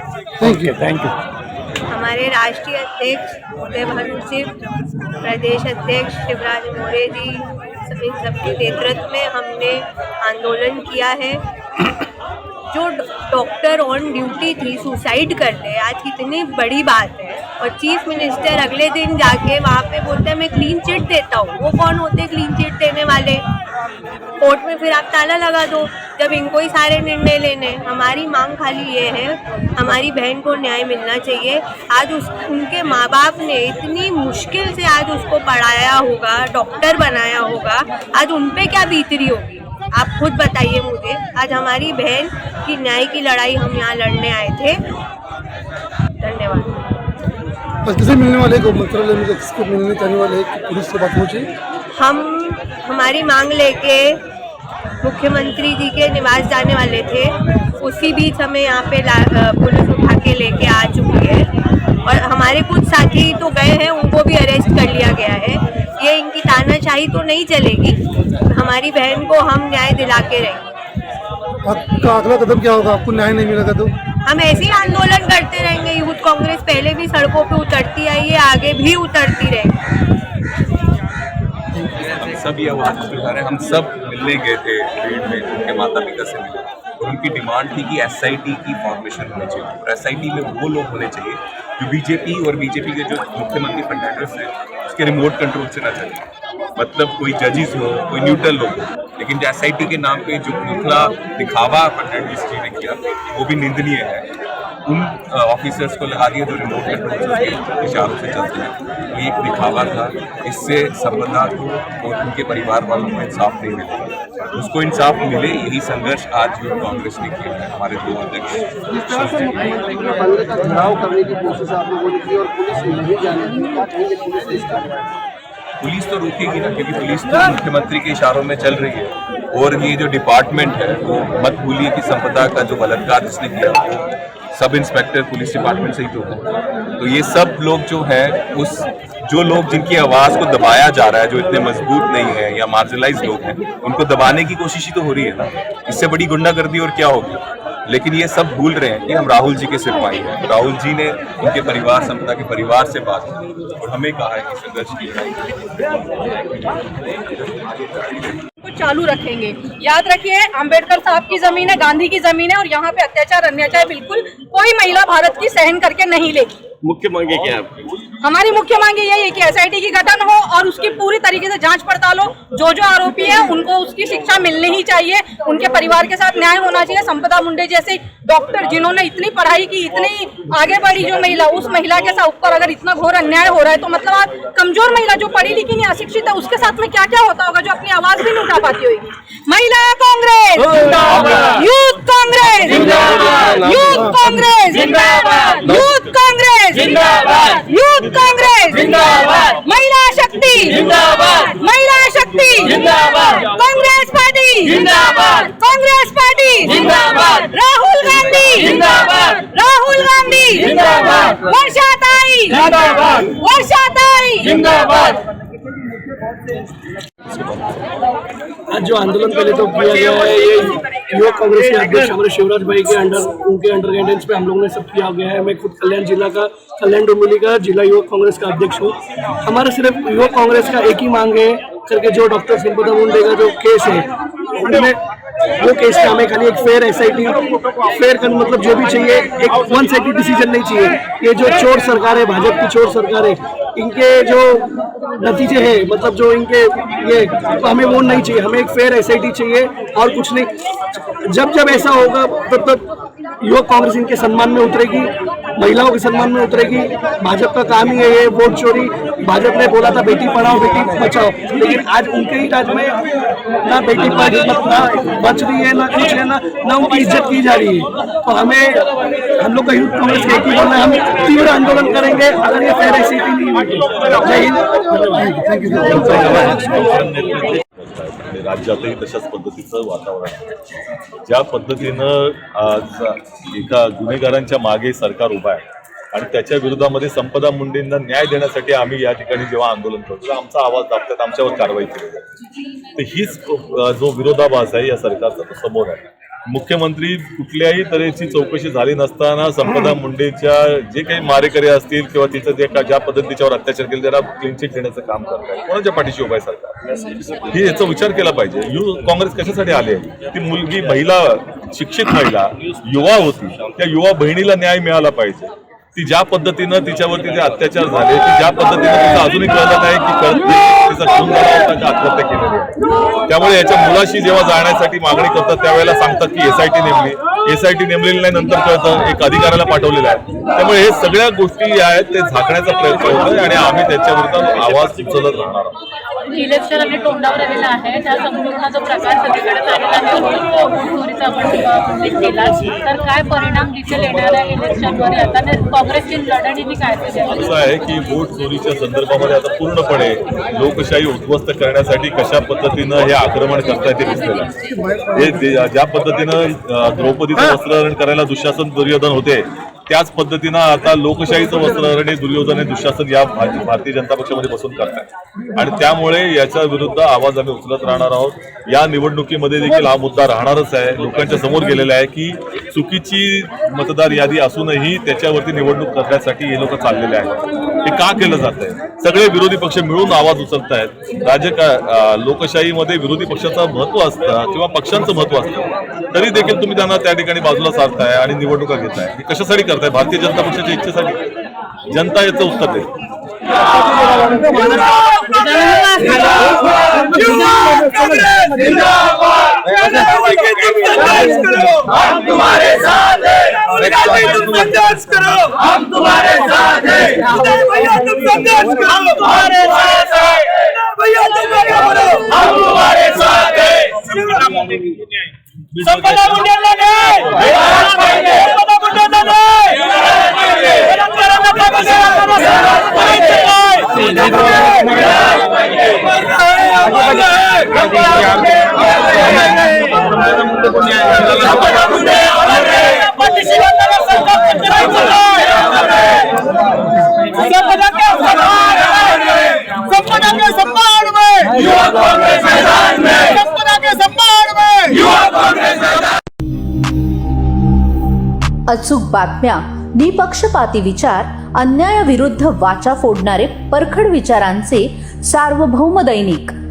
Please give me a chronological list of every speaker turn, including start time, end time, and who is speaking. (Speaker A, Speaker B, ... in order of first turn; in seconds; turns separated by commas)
Speaker A: 0.4-1.1, Speaker B: 1.9-4.5, Speaker B: 5.2-11.4, Speaker B: 12.7-23.4, Speaker B: 24.4-44.8, Speaker B: 46.2-46.7, Speaker C: 47.8-51.5, Speaker B: 52.0-54.2, Speaker B: 55.0-61.5, Speaker B: 62.0-68.0, Speaker B: 68.5-70.7, Speaker C: 71.6-73.9, Speaker B: 74.2-79.7, Speaker D: 81.9-96.2, Speaker D: 96.8-104.2, Speaker D: 104.9-119.7, Speaker A: 119.1-124.9, Speaker D: 125.8-136.4, Speaker D: 137.0-155.5, Speaker E: 158.6-166.6, Speaker E: 168.2-215.2, Speaker A: 218.7-235.0, Speaker A: 235.6-244.7, Speaker A: 245.2-250.5, Speaker A: 251.3-252.9, Speaker A: 253.4-263.0, Speaker A: 263.6-268.8, Speaker A: 269.4-275.1, Speaker C: 275.3-275.9, Speaker A: 276.0-276.3, Speaker F: 276.0-280.4, Speaker F: 281.2-292.2, Speaker F: 292.9-306.8, Speaker F: 307.5-322.7, Speaker F: 323.3-335.8, Speaker G: 336.3-347.4, Speaker F: 347.3-354.5, Speaker F: 355.1-377.3, Speaker F: 377.8-391.3, Speaker F: 391.9-392.9, Speaker G: 394.1-398.4, Speaker H: 448.7-456.6